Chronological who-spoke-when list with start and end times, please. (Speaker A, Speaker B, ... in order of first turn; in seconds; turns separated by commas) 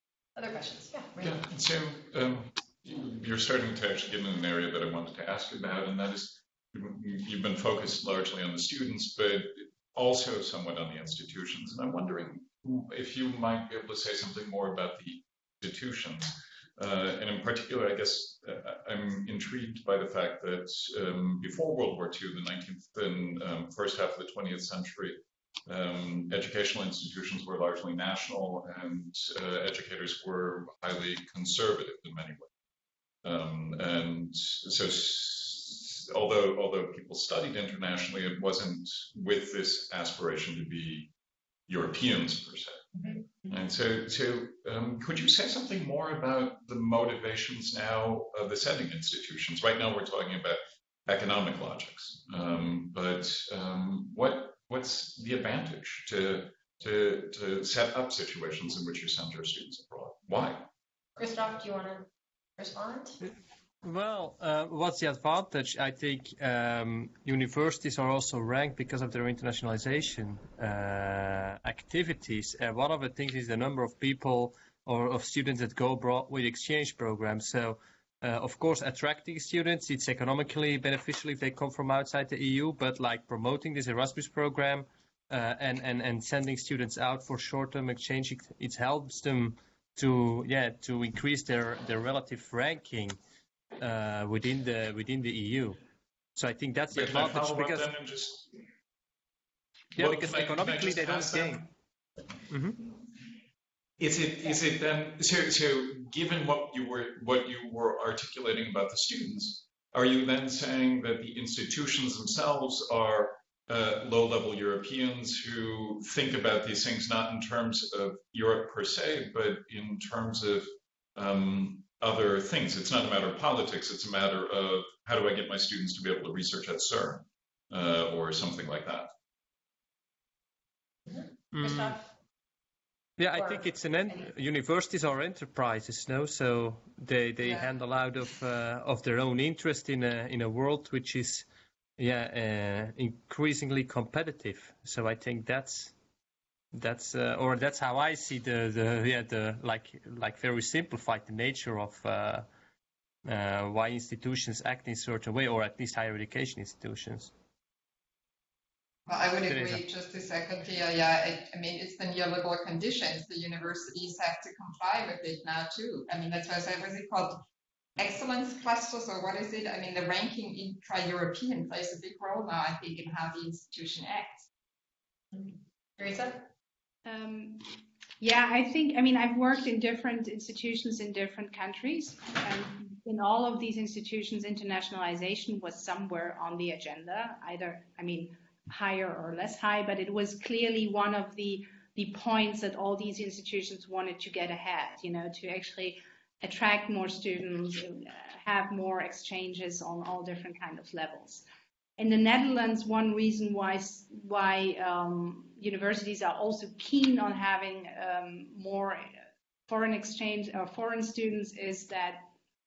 Speaker A: 0.4-1.4, Speaker B: 1.2-32.5, Speaker B: 33.2-41.1, Speaker B: 41.7-42.8, Speaker B: 43.5-60.7, Speaker A: 61.2-62.1, Speaker A: 62.6-63.2, Speaker C: 63.8-93.2, Speaker C: 93.8-95.8, Speaker C: 96.4-97.9, Speaker B: 96.9-98.5, Speaker B: 100.0-101.6, Speaker C: 100.0-101.6, Speaker C: 102.5-102.8, Speaker B: 104.0-129.1, Speaker A: 131.1-132.0, Speaker C: 131.5-132.0, Speaker C: 133.2-141.5, Speaker A: 133.3-134.3, Speaker D: 137.4-137.7, Speaker C: 142.0-145.9, Speaker C: 146.7-152.5, Speaker C: 153.2-157.3, Speaker D: 159.1-167.4, Speaker C: 159.5-159.8, Speaker D: 168.0-174.5, Speaker A: 175.3-176.4, Speaker E: 177.1-201.4, Speaker E: 202.0-209.1, Speaker E: 209.7-212.3